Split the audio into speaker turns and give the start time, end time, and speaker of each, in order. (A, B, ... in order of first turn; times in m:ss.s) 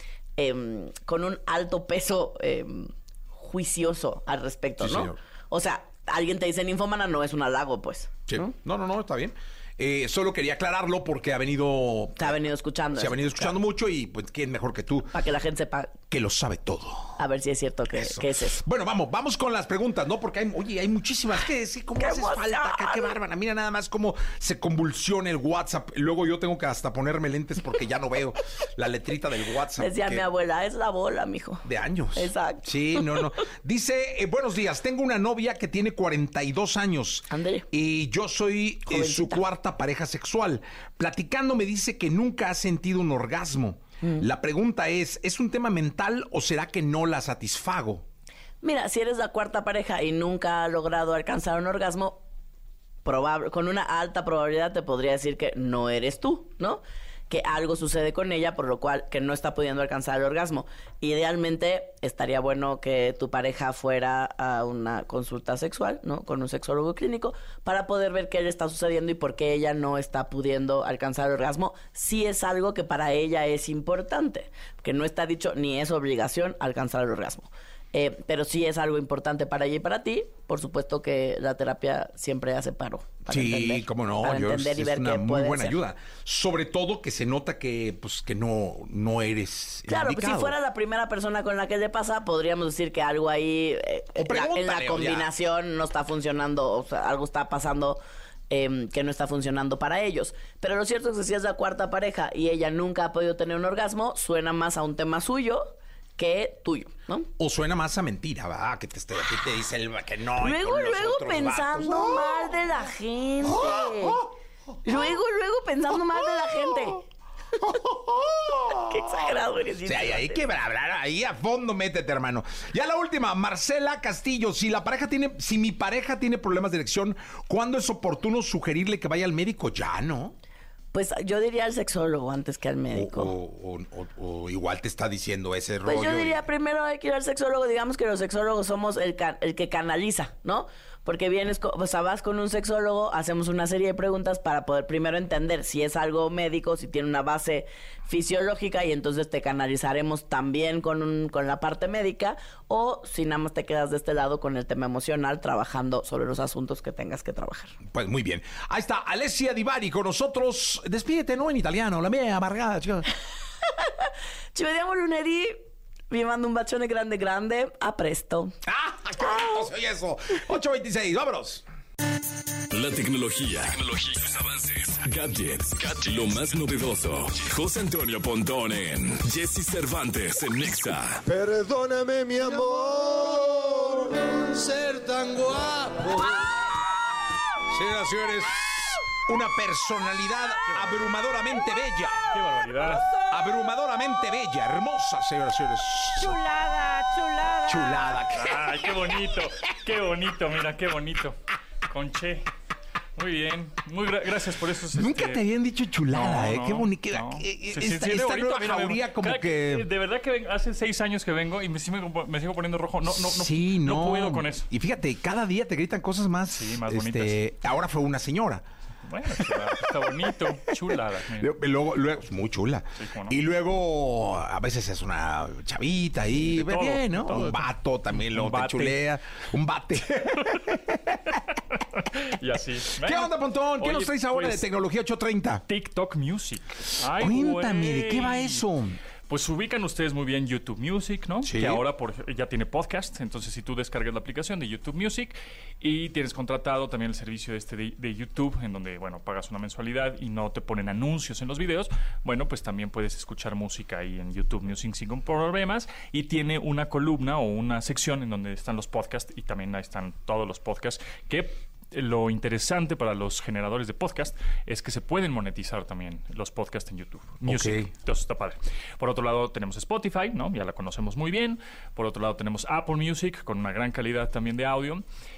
0:00.4-0:08.5 A
0:04.8-0:05.2 B
0:08.3-0:12.4 B
0:12.2-0:13.6 A
0:12.9-0:15.1 B
0:15.1-0:15.9 A
0:16.1-0:17.2 B
0:17.2-0:18.6 A
0:17.9-0:30.2 B
0:22.0-0:23.1 A
0:29.8-0:33.4 A
0:31.6-0:48.0 B
0:37.3-0:37.7 A
0:38.8-0:39.4 A
0:44.0-0:44.3 A
0:48.6-0:52.2 A
0:53.0-1:25.8 A
1:23.3-1:30.5 B
1:29.9-1:47.3 A
1:34.2-1:35.3 B
1:47.4-1:52.5 B
1:50.4-1:54.2 A
1:53.4-1:54.3 B
1:54.8-1:57.0 A
1:57.6-1:59.2 B
1:58.8-2:00.4 A
1:59.8-2:10.4 B
2:10.9-2:13.3 A
2:12.9-2:16.4 B
2:15.8-2:37.8 A
2:37.8-2:43.1 B
2:43.8-2:48.6 A
2:48.6-2:51.6 B
2:52.7-3:01.2 C
3:01.2-3:06.3 D
3:07.7-3:12.3 B
3:12.3-3:13.1 E
3:12.9-3:16.4 B
3:16.4-3:17.6 A
3:17.6-3:18.9 B
3:18.3-3:21.4 E
3:21.9-3:22.5 E
3:23.2-3:25.4 E
3:24.9-3:29.9 B
3:26.1-3:34.7 E
3:33.1-3:38.6 B
3:36.5-3:37.4 E
3:39.0-3:41.5 E
3:39.4-3:40.1 B
3:40.7-3:51.1 B
3:43.0-3:43.4 E
3:46.3-3:49.0 E
3:50.4-3:50.7 E
3:51.7-3:54.7 E
3:53.0-3:55.6 B
3:55.7-3:58.6 E
3:57.0-3:59.0 B
3:59.3-4:35.0 E
4:01.4-4:01.8 B
4:27.4-4:27.9 B